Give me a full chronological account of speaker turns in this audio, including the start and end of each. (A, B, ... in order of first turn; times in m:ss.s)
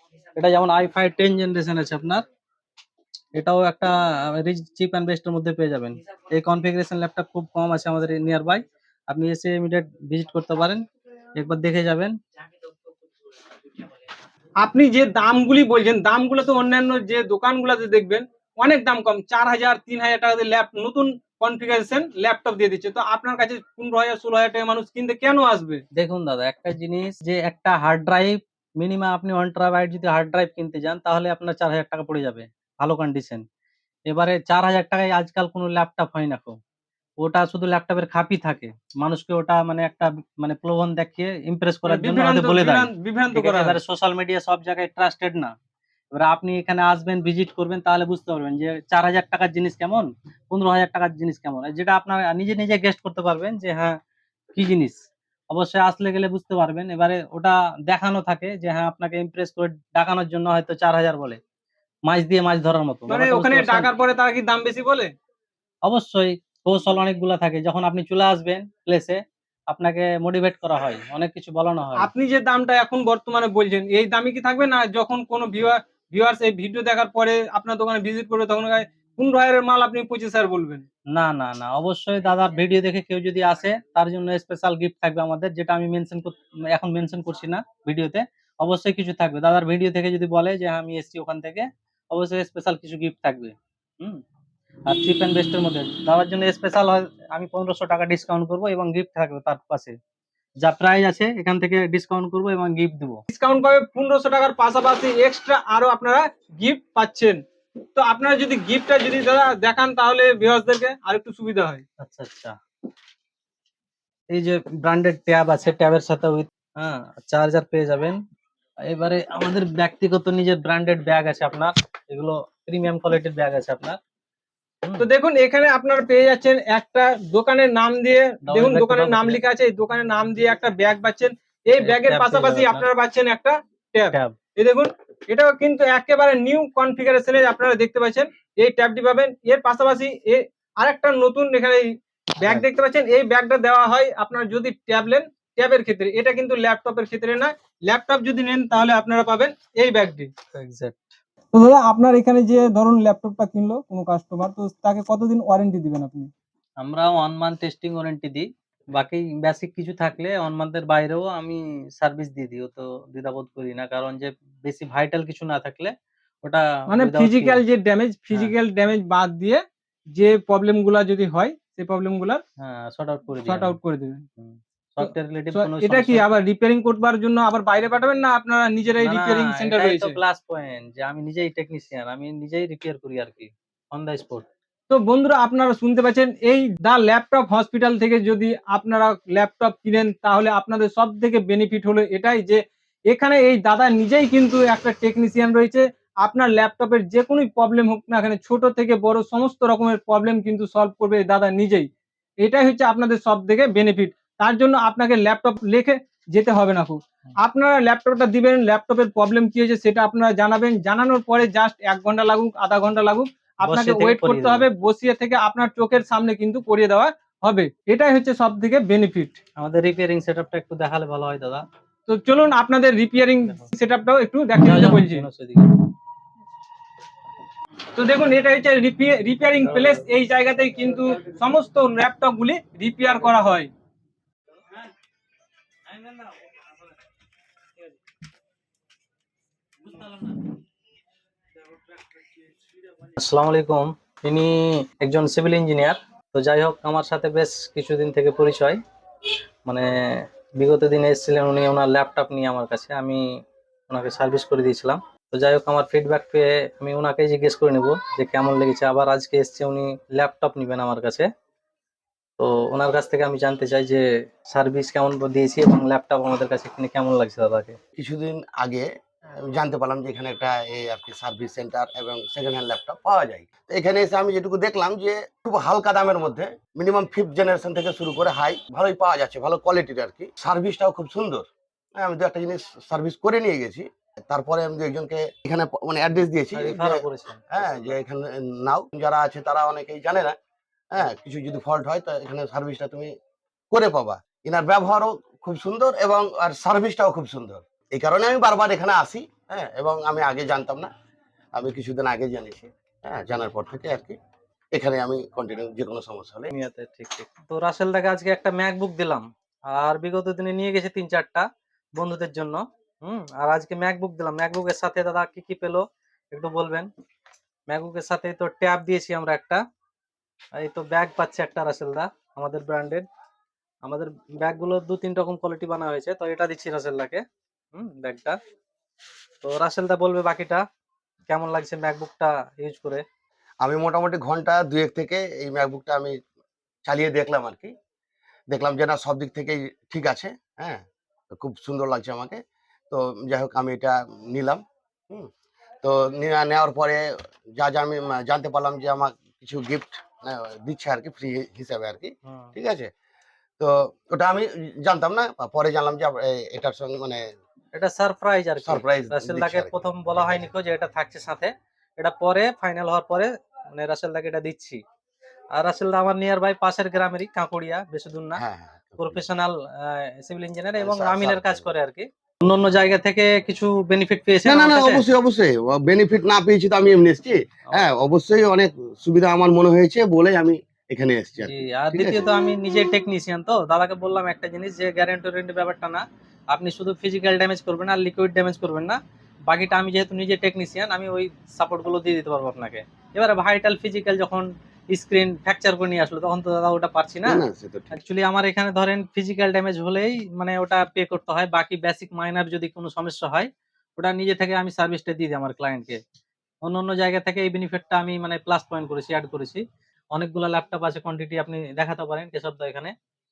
0:00.4-0:02.2 A
0:03.3-0:10.8 A
0:11.4-0:12.1 A
0:14.6-0:25.8 B
0:25.9-0:33.4 A
0:34.1-0:36.6 A
0:37.2-0:45.5 A
0:41.8-0:43.8 B
0:46.1-0:54.0 A
0:54.5-0:55.0 A
0:55.5-1:01.4 A
1:02.1-1:03.9 A
1:03.1-1:05.1 B
1:05.8-1:12.1 A
1:12.0-1:20.8 B
1:21.1-1:34.2 A
1:34.9-1:40.0 A
1:40.6-1:43.2 A
1:43.3-1:47.4 B
1:48.0-1:51.8 B
1:52.0-1:52.6 A
1:54.3-1:58.2 A
1:58.9-2:04.0 A
2:05.0-2:30.3 B
2:08.5-2:09.4 A
2:11.8-2:12.8 A
2:30.5-2:31.1 A
2:31.5-2:36.3 B
2:36.8-2:45.9 A
2:46.4-2:47.6 A
2:46.9-2:52.4 B
2:52.6-2:53.8 A
2:53.4-2:54.2 B
2:54.4-2:56.2 A
2:55.0-3:00.2 B
2:59.0-3:04.4 A
3:04.9-3:21.9 B
3:22.4-3:39.4 B
3:33.6-3:34.6 A
3:39.6-3:41.6 A
3:42.1-3:45.2 B
3:44.6-3:45.7 A
3:48.0-3:53.7 B
3:59.9-4:00.5 A
4:03.0-4:08.8 A
4:09.6-4:21.3 A
4:22.4-4:27.8 A
4:28.0-4:50.3 C
4:46.5-4:48.0 A
4:50.9-4:53.1 C
4:53.7-5:00.9 C
5:01.5-5:04.2 C
5:04.7-5:06.5 C
5:06.5-5:16.9 A
5:17.7-5:19.6 A
5:20.6-5:23.0 A
5:23.8-5:27.2 A
5:27.7-5:28.4 A
5:29.4-5:30.6 A
5:31.3-5:33.0 A
5:33.6-5:36.2 C
5:36.8-5:37.7 C
5:38.5-5:40.8 C
5:41.3-5:45.3 C
5:45.8-5:52.9 C
5:52.3-5:52.5 A
5:53.6-5:57.2 C
5:57.7-6:04.8 A
5:58.6-6:00.5 C
6:05.6-6:08.4 A
6:08.4-6:09.2 C
6:09.0-6:15.0 A
6:10.8-6:11.7 C
6:14.4-6:22.2 C
6:21.4-6:46.0 A
6:37.2-6:38.0 C
6:46.6-6:49.6 A
6:50.1-6:52.9 A